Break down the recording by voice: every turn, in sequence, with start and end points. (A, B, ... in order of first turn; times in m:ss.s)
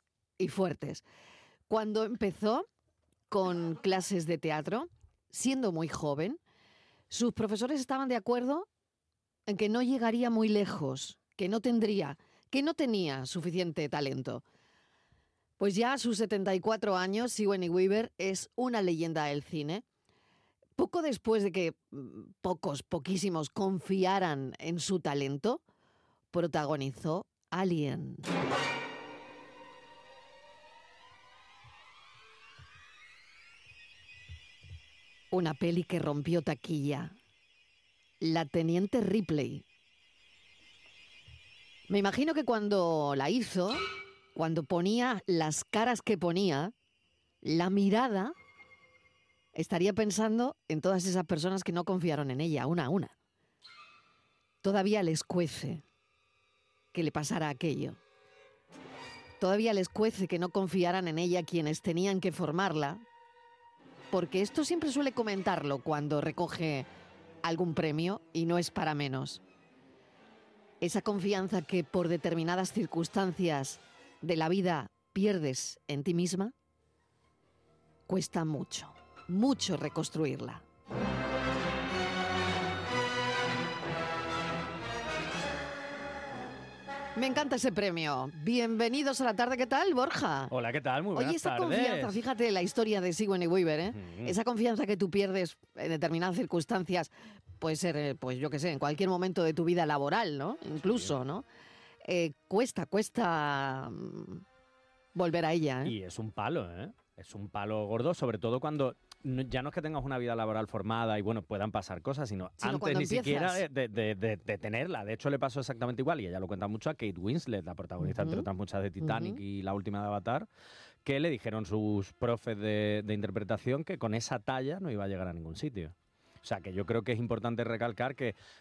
0:00.4-0:01.0 A
0:01.7-0:02.7 A
0:03.3-0:06.4 A
0:07.1-0:08.7 A
0:09.5-0:14.4 A
0:15.6-0:19.8 A
0:20.8-0:25.6 A
0:26.3-0:28.3 A
0:35.3-0:37.2 A
0:38.2-0:39.6 A
0:41.9-0:46.7 A
0:47.4-0:48.3 A
0:49.5-0:53.1 A
0:54.6-0:55.8 A
0:56.9-0:58.0 A
0:59.4-1:03.0 A
1:04.1-1:06.9 A
1:07.4-1:09.4 A
1:10.8-1:16.5 A
1:18.1-1:20.6 A
1:27.2-1:30.5 A
1:30.5-1:32.2 B
1:31.2-1:37.1 A
1:33.9-1:34.4 B
1:37.6-1:41.4 A
1:42.0-1:44.4 A
1:45.1-1:45.9 A
1:45.8-2:00.5 B
1:52.6-1:53.6 A
1:58.0-1:58.4 A
1:59.0-1:59.4 A
2:01.0-2:08.3 B